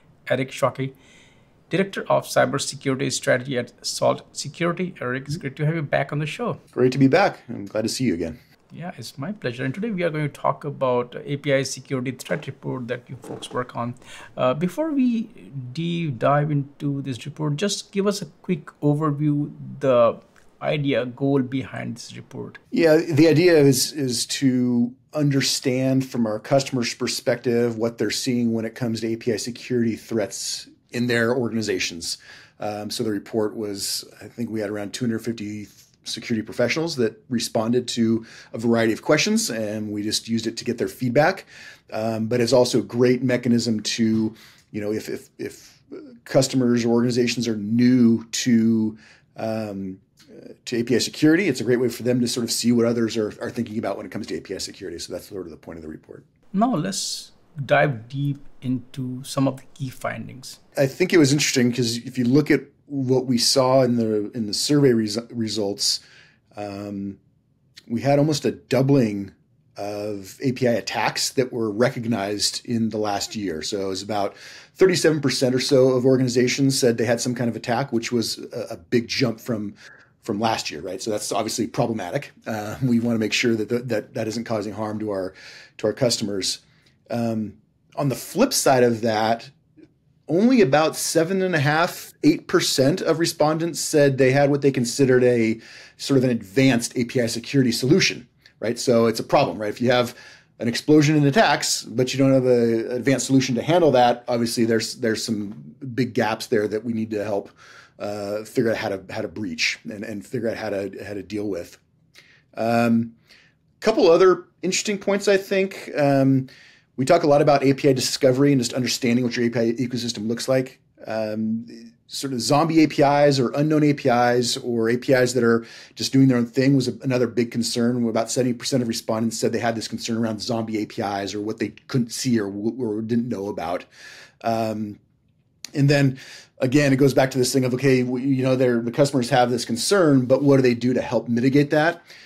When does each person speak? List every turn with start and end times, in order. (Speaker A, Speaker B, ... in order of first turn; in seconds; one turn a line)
Speaker A: 0.3-0.9
Speaker A: 1.7-6.6
Speaker B: 6.7-8.4
Speaker A: 8.7-22.6
Speaker B: 22.7-50.0
Speaker B: 50.6-56.2
Speaker A: 56.5-60.6
Speaker B: 60.8-66.0
Speaker B: 66.5-67.2
Speaker B: 67.9-89.5
Speaker B: 90.3-111.8
Speaker B: 112.5-113.1
Speaker B: 113.8-133.9
Speaker B: 134.4-135.0
Speaker B: 135.7-142.0